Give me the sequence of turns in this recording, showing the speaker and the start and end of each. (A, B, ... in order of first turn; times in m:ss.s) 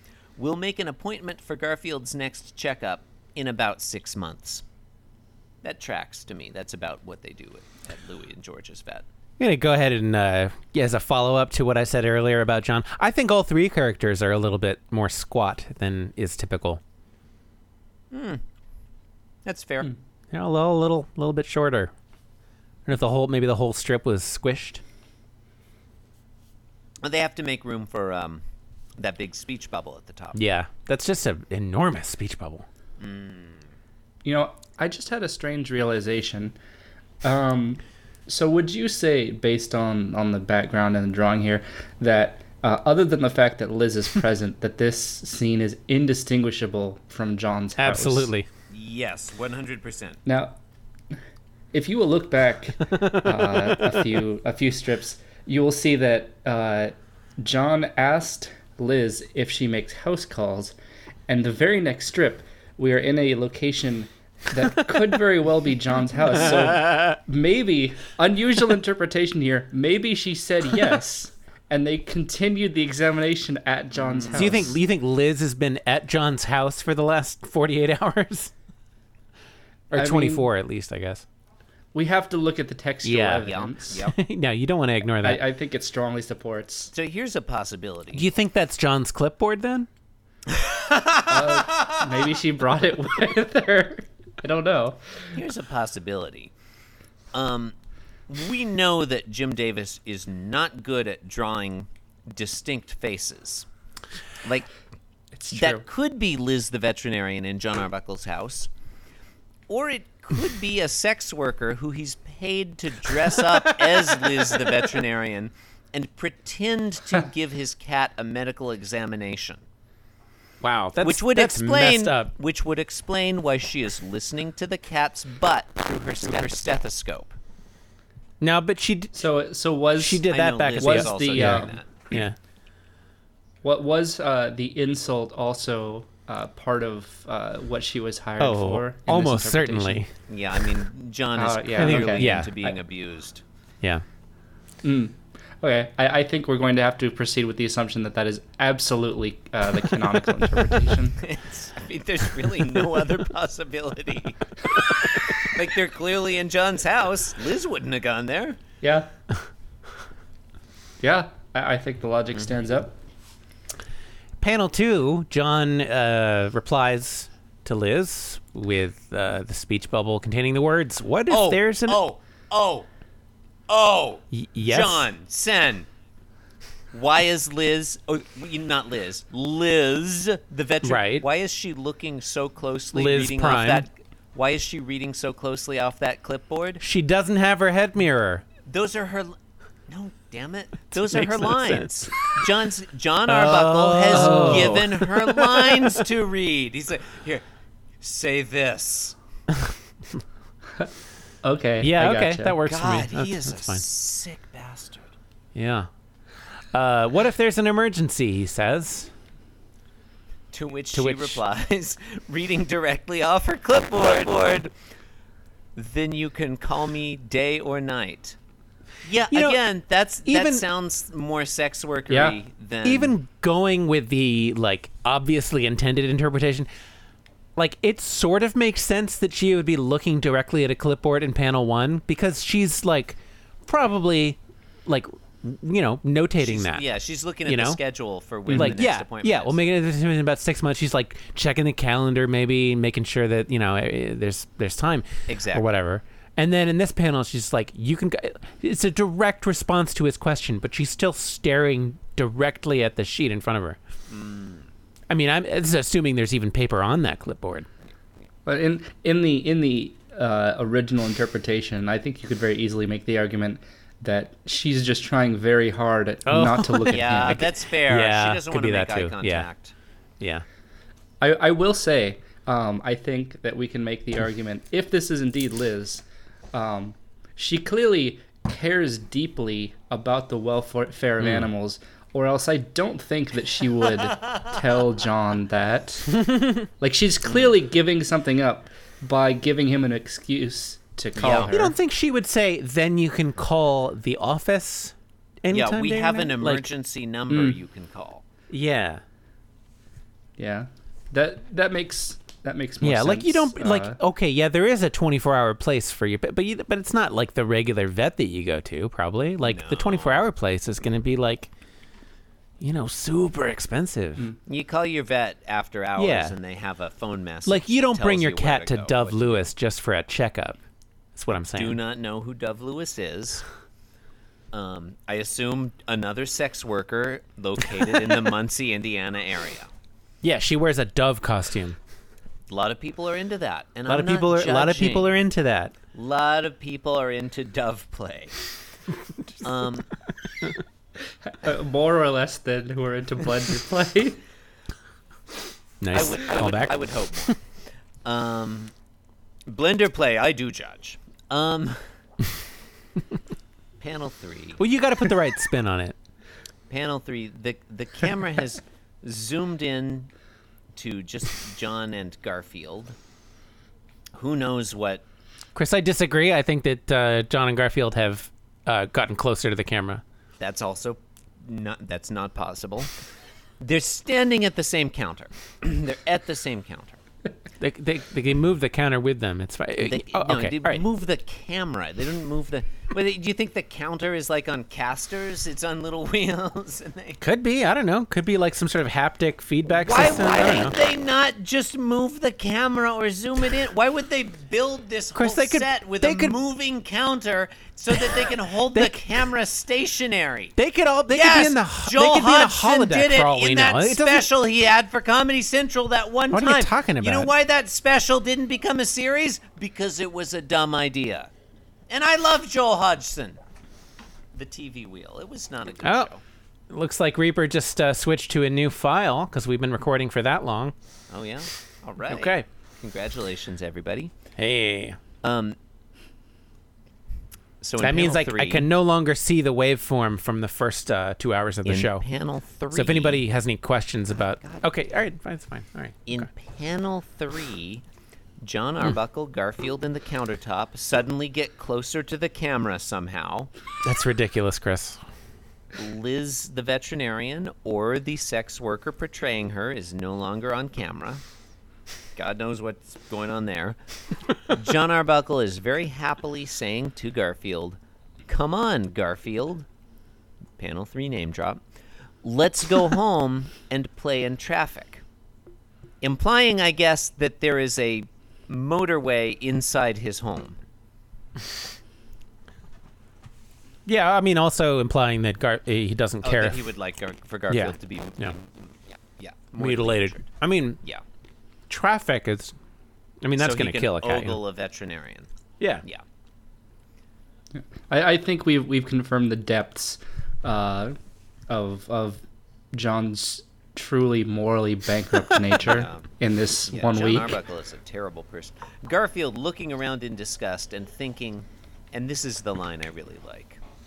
0:00.4-0:04.6 A
0:05.6-0:09.1 A
0:09.4-0:16.8 B
0:18.1-0:18.4 A
0:19.4-0:19.9 A
0:20.3-0:21.9 B
0:22.9-0:24.8 B
0:27.0-0:28.4 A
0:29.0-0:30.4 A
0:30.3-0:32.6 B
0:33.0-0:33.7 A
0:34.2-0:36.6 C
0:37.2-0:48.3 C
0:47.8-0:48.5 B
0:48.7-0:50.2 A
0:50.3-0:50.6 C
0:51.7-1:00.8 C
0:53.0-0:54.0 B
1:01.3-1:14.8 C
1:06.5-1:07.1 B
1:14.0-1:14.6 A
1:14.3-1:18.5 B
1:19.9-1:21.2 B
1:19.9-1:20.5 C
1:21.9-1:24.0 C
1:23.0-1:25.4 B
1:23.4-1:24.2 A
1:25.2-1:26.9 C
1:26.9-1:28.3 A
1:28.1-1:29.9 B
1:30.5-1:32.0 A
1:31.3-1:35.0 C
1:35.4-1:36.5 A
1:37.3-1:37.8 A
1:38.3-1:43.7 A
1:44.4-1:44.7 A
1:45.3-1:45.8 C
1:45.5-1:48.7 A
1:49.7-1:59.6 A
2:00.6-2:02.3 B
2:01.0-2:07.4 A
2:08.4-2:09.2 B
2:09.1-2:11.8 C
2:10.0-2:12.4 B
2:10.3-2:11.9 A
2:13.6-2:20.0 C
2:18.4-2:20.1 B
2:20.3-2:23.4 A
2:21.4-2:22.7 C
2:21.8-2:22.5 B
2:24.8-2:31.2 C
2:31.2-2:38.6 A
2:38.8-2:39.1 C
2:41.0-2:43.0 C
2:44.4-2:52.0 B
2:51.3-2:52.9 A
2:53.7-2:55.9 A
2:54.3-2:55.1 B
2:56.9-3:06.8 A
3:00.8-3:01.2 B
3:02.9-3:03.8 B
3:06.8-3:08.4 B
3:08.6-3:09.4 A
3:09.9-3:17.4 A
3:11.1-3:12.2 B
3:13.3-3:16.0 B
3:14.2-3:14.5 C
3:18.0-3:19.2 A
3:21.4-3:22.6 C
3:21.8-3:23.8 B
3:22.6-3:25.1 A
3:25.6-3:25.9 B
3:26.7-3:29.1 B
3:30.5-3:34.7 A
3:30.9-3:31.4 B
3:35.8-3:38.4 A
3:39.0-3:43.2 A
3:39.3-3:39.6 B
3:40.2-3:40.6 B
3:42.1-3:42.4 C
3:42.8-3:46.7 B
3:47.6-3:56.8 B
3:56.4-3:59.6 A
3:57.5-3:57.8 B
3:58.5-3:58.8 C
3:58.5-4:13.8 B
4:05.3-4:05.7 A
4:14.1-4:14.7 A
4:15.1-4:17.7 B
4:18.5-4:27.4 C
4:26.3-4:29.5 B
4:26.9-4:29.7 A
4:30.2-4:30.4 B
4:31.2-4:46.3 C
4:41.2-4:41.5 B
4:46.2-4:46.6 B
4:46.8-4:51.8 C
4:47.2-4:47.6 A
4:51.2-4:51.5 A
4:51.4-4:56.6 B
4:55.5-4:58.2 A
4:57.3-4:57.6 C
4:58.5-4:59.0 B
5:00.4-5:04.0 C
5:02.8-5:11.5 B
5:09.4-5:10.3 A
5:12.6-5:14.3 B
5:14.5-5:19.5 A
5:16.0-5:16.4 B
5:17.5-5:20.6 B
5:21.2-5:21.8 B
5:21.5-5:23.4 A
5:24.5-5:29.7 A
5:30.2-5:31.8 B
5:32.5-5:35.2 A
5:33.9-5:35.7 B
5:35.9-5:38.4 A
5:39.4-5:39.9 A
5:41.4-5:44.2 C
5:45.8-5:47.3 B
5:45.9-5:47.4 A
5:48.0-5:48.7 A
5:49.5-5:51.8 A
5:53.8-5:54.6 A
5:54.6-5:56.0 B
5:56.7-6:00.1 A
6:00.8-6:03.0 A
6:04.2-6:05.0 A
6:05.6-6:10.0 B
6:10.4-6:12.9 A
6:13.6-6:17.0 A
6:17.6-6:20.8 B
6:19.8-6:27.2 A
6:27.2-6:30.8 B
6:29.7-6:40.5 A
6:35.1-6:36.4 B
6:38.7-6:39.0 B
6:40.6-6:44.3 B
6:41.1-6:51.3 A
6:46.3-6:47.3 B
6:51.9-6:53.4 A
6:54.3-6:56.2 A
6:55.8-6:56.1 B
6:56.7-7:00.7 B
7:01.1-7:04.1 A
7:02.1-7:02.4 B
7:04.4-7:05.0 B
7:05.2-7:05.6 A
7:07.6-7:08.7 A
7:07.8-7:12.0 B
7:11.6-7:13.3 A
7:12.7-7:16.3 B
7:14.2-7:14.7 A
7:16.1-7:17.8 A
7:18.4-7:23.5 A
7:23.8-7:25.0 B
7:25.8-7:31.2 A
7:32.2-7:33.8 A
7:34.5-7:39.7 A
7:40.6-7:41.6 A
7:42.2-7:45.0 A
7:46.0-7:50.6 A
7:53.9-7:56.6 B
7:56.2-8:00.3 A
7:57.5-7:58.3 B
7:59.6-8:00.8 B
8:01.7-8:02.5 B
8:03.2-8:04.4 B
8:03.4-8:05.3 A
8:07.5-8:10.9 C
8:11.5-8:17.4 C
8:15.6-8:16.1 A
8:16.7-8:23.6 A